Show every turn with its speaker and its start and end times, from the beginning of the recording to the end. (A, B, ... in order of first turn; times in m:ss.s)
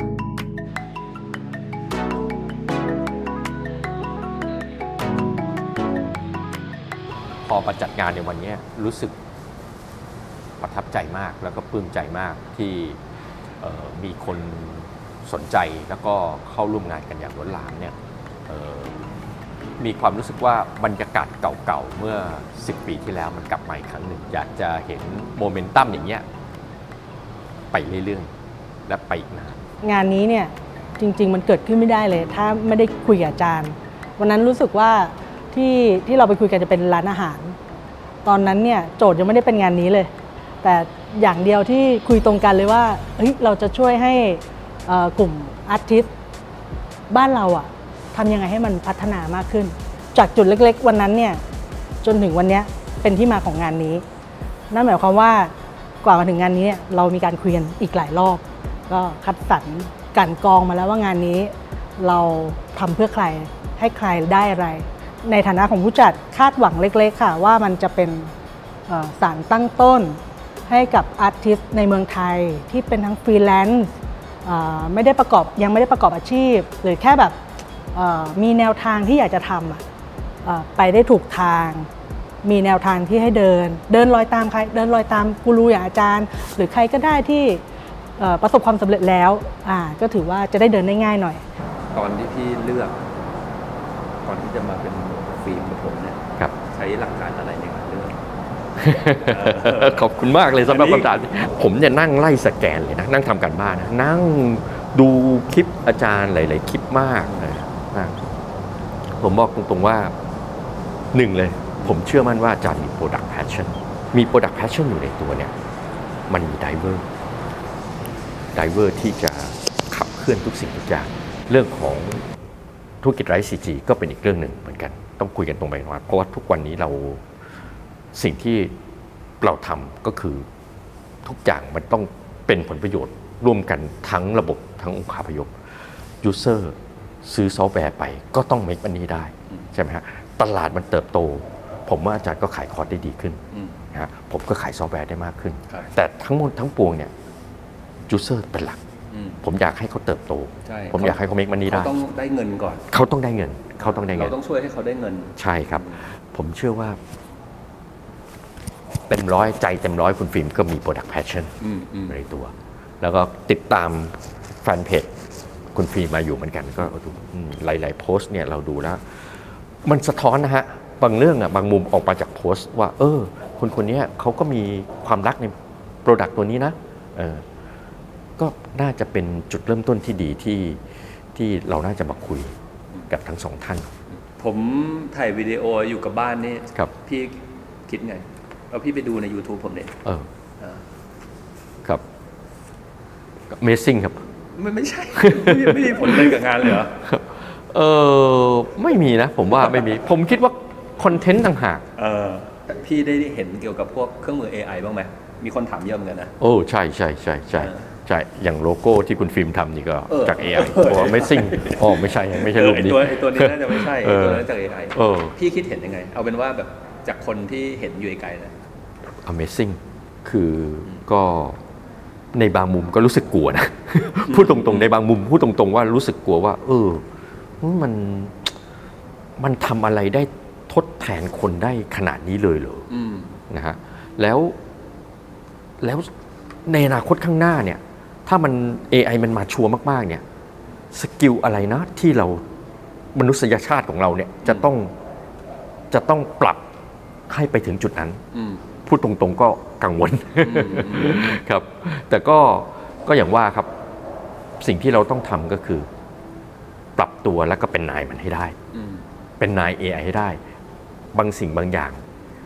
0:07.5-0:09.2 A
0:10.6-0:13.0 A
0:13.6-0:18.0 A
0:18.5-0:19.0 A
0:19.8-0:26.2 A
0:27.7-0:28.3 A
0:28.9-0:29.6 A
0:29.8-0:37.6 B
0:38.2-0:40.1 B
0:40.6-0:46.1 B
0:47.1-0:51.4 B
0:52.0-0:54.0 B
0:54.7-1:08.3 B
1:08.9-1:13.9 B
1:14.4-1:17.4 B
1:17.9-1:19.8 B
1:20.4-1:21.9 B
1:22.4-1:27.6 B
1:28.2-1:31.4 B
1:31.9-1:33.0 C
1:34.2-1:38.2 C
1:38.8-1:48.1 A
1:39.2-1:40.0 C
1:40.6-1:41.1 C
1:49.2-1:50.1 A
1:51.1-1:55.5 A
1:56.3-1:57.1 A
1:58.6-2:02.2 A
2:03.0-2:07.2 A
2:08.2-2:08.7 A
2:09.4-2:10.5 A
2:11.2-2:15.5 A
2:16.2-2:23.4 A
2:23.5-2:23.8 C
2:23.9-2:27.1 A
2:28.1-2:28.8 A
2:29.1-2:29.4 C
2:29.4-2:31.9 A
2:30.7-2:32.8 C
2:32.9-2:34.3 A
2:33.8-2:36.0 C
2:35.4-2:37.0 A
2:39.1-2:41.5 A
2:41.6-2:42.2 C
2:42.1-2:45.1 A
2:45.7-2:49.0 A
2:49.8-2:55.5 A
2:56.0-2:57.4 A
2:58.4-3:00.8 A
3:01.4-3:02.6 A
3:03.1-3:03.9 A
3:04.4-3:09.9 C
3:13.5-3:14.2 A
3:14.6-3:16.9 C
3:15.2-3:21.8 A
3:22.0-3:26.3 C
3:26.4-3:35.3 A
3:27.6-3:27.8 C
3:30.1-3:38.6 C
3:39.2-3:41.6 A
3:42.3-3:47.0 A
3:44.3-3:44.9 C
3:47.6-3:48.5 A
3:49.4-3:52.9 A
3:52.9-3:53.4 C
3:53.5-3:54.6 A
3:55.8-3:56.1 A
3:56.7-4:00.2 A
4:00.9-4:02.4 A
4:03.2-4:04.9 A
4:05.9-4:06.6 A
4:07.3-4:08.2 A
4:08.3-4:08.6 C
4:08.8-4:13.7 A
4:10.4-4:11.4 C
4:14.6-4:15.9 A
4:17.0-4:18.6 A
4:18.7-4:19.0 C
4:19.4-4:20.4 A
4:21.1-4:22.0 A